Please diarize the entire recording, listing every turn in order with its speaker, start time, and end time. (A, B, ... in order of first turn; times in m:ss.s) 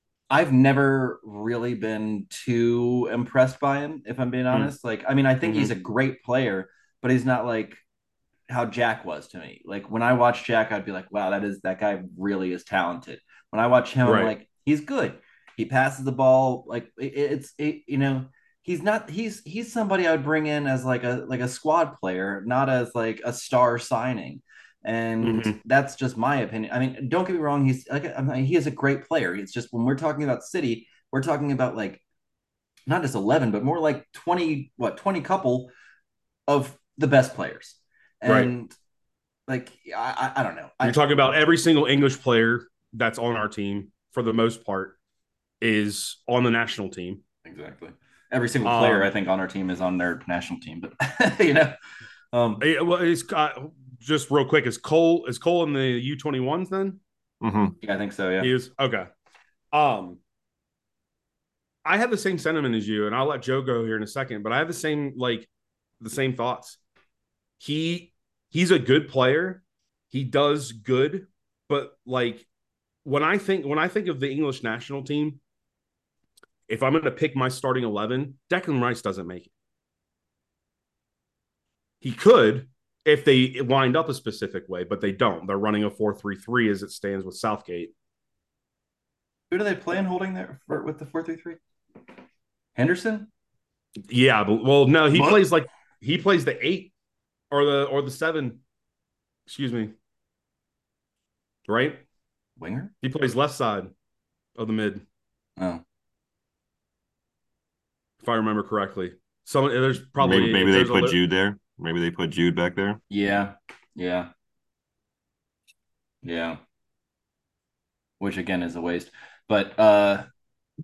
0:00.3-0:07.8 A
0:05.4-0:05.7 B
0:08.5-0:32.0 A
0:14.0-0:14.3 B
0:25.2-0:25.6 B
0:32.9-0:35.7 A
0:36.5-0:38.8 A
0:38.3-0:38.5 B
0:39.5-0:41.0 A
0:40.8-0:45.0 B
0:45.6-0:47.2 B
0:47.4-0:51.8 A
0:48.6-0:49.1 B
0:52.3-0:52.6 A
0:52.6-0:57.0 B
0:57.4-0:57.8 C
0:57.8-0:58.5 A
0:58.4-0:59.1 B
0:59.7-1:00.2 B
1:01.8-1:05.5 B
1:06.0-1:06.8 B
1:07.6-1:12.5 B
1:13.0-1:15.4 B
1:16.7-1:19.5 B
1:22.0-1:27.9 B
1:29.5-1:31.6 A
1:32.8-1:33.3 A
1:34.1-1:36.9 B
1:35.1-1:35.4 A
1:37.5-1:38.6 B
1:39.5-1:39.9 B
1:41.7-1:42.0 B
1:42.6-1:42.9 A
1:43.0-1:43.9 B
1:44.6-1:45.0 B
1:48.2-1:51.2 B
1:50.2-1:53.0 C
1:53.1-1:54.3 A
1:56.2-1:56.6 A
1:58.2-2:00.3 A